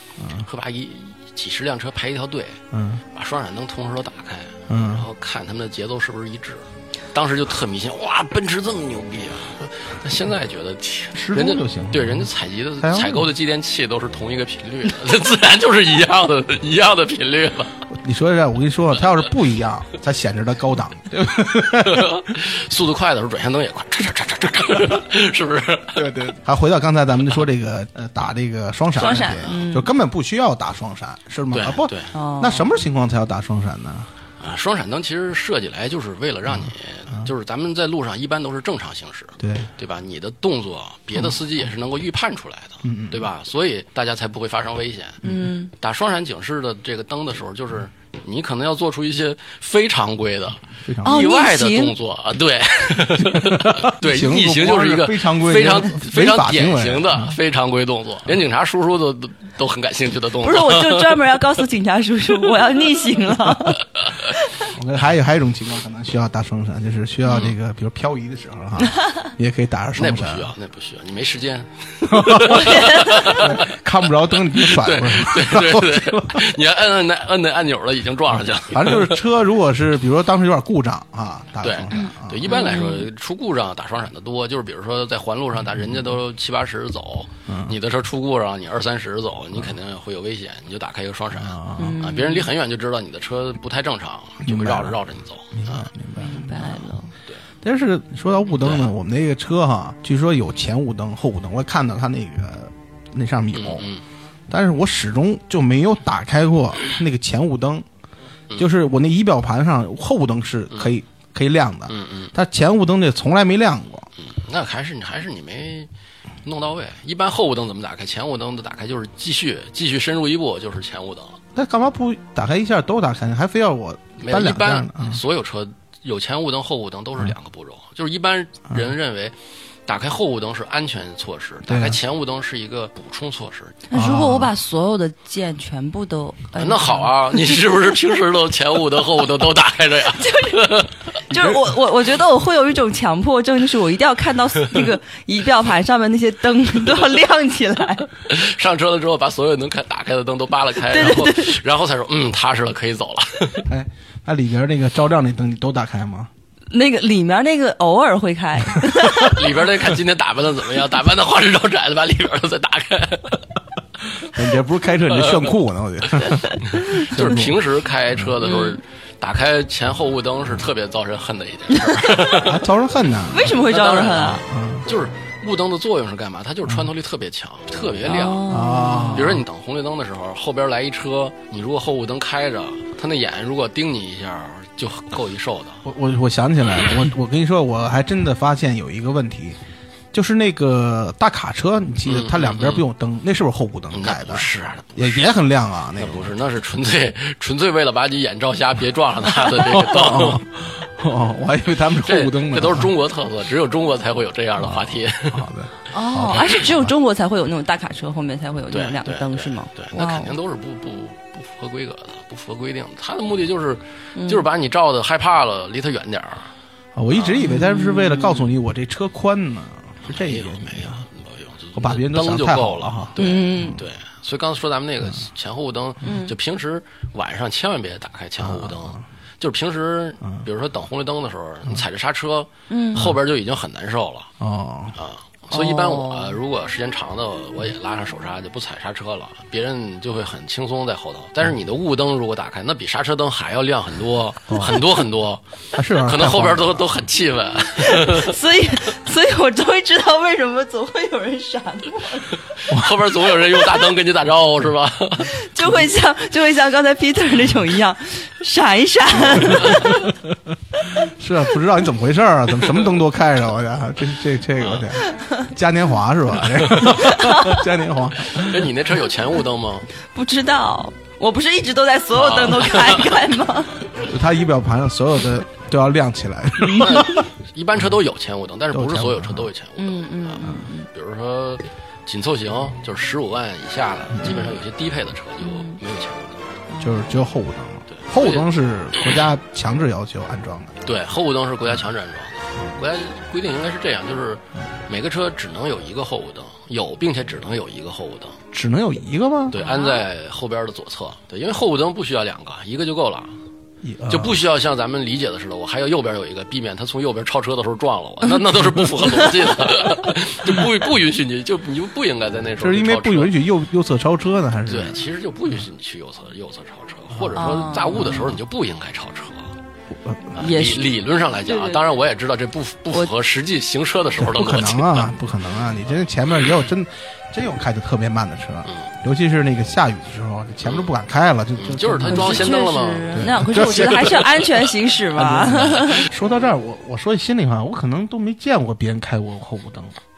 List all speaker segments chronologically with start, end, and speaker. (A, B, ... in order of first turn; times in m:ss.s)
0:00.2-0:00.4 A
0:00.3-0:17.7 B
0:02.7-0:03.0 A
0:04.7-0:05.0 A
0:11.1-0:12.3 A
0:12.8-0:13.3 A
0:17.9-0:22.2 A
0:21.8-0:26.2 B
0:25.9-0:34.1 A
0:29.0-0:29.9 C
0:29.1-0:29.5 B
0:31.5-0:32.1 B
0:32.1-0:32.7 C
0:34.4-1:01.2 B
0:39.4-0:39.7 A
0:42.8-0:43.2 A
0:45.2-0:45.7 C
0:45.2-0:45.5 A
0:50.8-0:51.2 A
0:51.0-0:51.9 C
0:53.2-0:57.3 A
1:00.4-1:04.7 C
1:04.7-1:10.5 A
1:07.2-1:07.5 B
1:10.0-1:13.7 B
1:12.0-1:16.5 A
1:12.5-1:13.4 C
1:14.5-1:19.2 B
1:18.7-1:22.5 A
1:21.6-1:35.9 B
1:21.9-1:23.1 C
1:27.5-1:27.7 A
1:31.4-1:32.0 A
1:31.8-1:32.5 C
1:34.4-1:35.0 A
1:35.5-1:36.9 A
1:36.2-1:37.1 C
1:37.6-1:43.8 A
1:38.6-1:38.9 B
1:43.5-1:44.0 B
1:44.5-1:47.8 A
1:48.6-1:54.1 A
1:51.9-1:52.3 B
1:54.2-1:55.9 B
1:56.4-2:01.4 B
2:01.5-2:05.2 A
2:04.2-2:13.8 B
2:11.7-2:12.0 A
2:13.9-2:17.6 C
2:13.9-2:14.5 A
2:16.6-2:21.4 B
2:20.1-2:28.1 C
2:28.2-2:33.7 B
2:30.8-2:31.6 C
2:33.6-2:36.3 A
2:36.7-2:39.4 C
2:39.1-2:43.4 B
2:44.2-2:47.6 A
2:45.1-2:45.5 B
2:46.6-2:52.6 B
2:48.4-2:48.8 C
2:52.3-2:53.6 A
2:53.3-2:54.4 C
2:53.5-2:58.4 B
2:54.4-2:54.9 A
2:58.0-2:59.3 C
2:58.5-2:59.4 A
2:59.1-3:05.8 B
3:05.8-3:09.6 A
3:10.1-3:16.3 A
3:12.0-3:12.8 B
3:13.9-3:15.3 B
3:16.0-3:20.4 B
3:19.7-3:22.9 A
3:22.0-3:25.5 B
3:24.6-3:26.9 A
3:25.9-3:30.3 C
3:28.7-3:36.5 B
3:34.2-3:34.4 C
3:37.0-3:41.0 A
3:37.3-3:38.5 C
3:40.0-3:54.3 B
3:41.7-3:43.1 A
3:43.2-3:43.8 C
3:46.0-3:46.3 C
3:48.4-3:49.0 A
3:52.7-3:53.1 C
3:54.4-3:55.0 A
3:54.9-4:08.4 B
3:55.5-3:56.4 C
4:04.5-4:04.9 A
4:05.7-4:06.9 A
4:07.8-4:12.4 C
4:12.6-4:15.4 B
4:12.7-4:12.9 A
4:15.3-4:20.1 C
4:19.2-4:28.7 A
4:24.6-4:24.9 B
4:26.6-4:26.9 B
4:26.9-4:27.6 C
4:28.3-4:29.9 B
4:30.1-4:33.7 C
4:32.1-4:33.2 B
4:34.0-4:37.3 A
4:36.7-4:46.4 B
4:38.7-4:39.5 A
4:39.8-4:40.9 C
4:45.4-4:45.8 C
4:46.7-4:47.2 C
4:46.8-4:50.8 A
4:47.9-4:48.5 B
4:50.8-4:58.4 B
4:58.5-4:59.6 A
4:59.5-5:03.4 B
4:59.6-5:00.0 C
5:03.8-5:04.4 A
5:04.1-5:13.4 B
5:12.6-5:15.0 A
5:14.7-5:19.5 B
5:17.4-5:18.4 C
5:19.9-5:20.4 A
5:20.3-5:25.2 B
5:20.4-5:21.8 C
5:24.2-5:32.5 A
5:30.6-5:30.9 B
5:31.6-5:34.6 B
5:32.0-5:36.1 C
5:33.1-5:34.2 A
5:35.1-5:40.0 A
5:35.6-5:36.0 B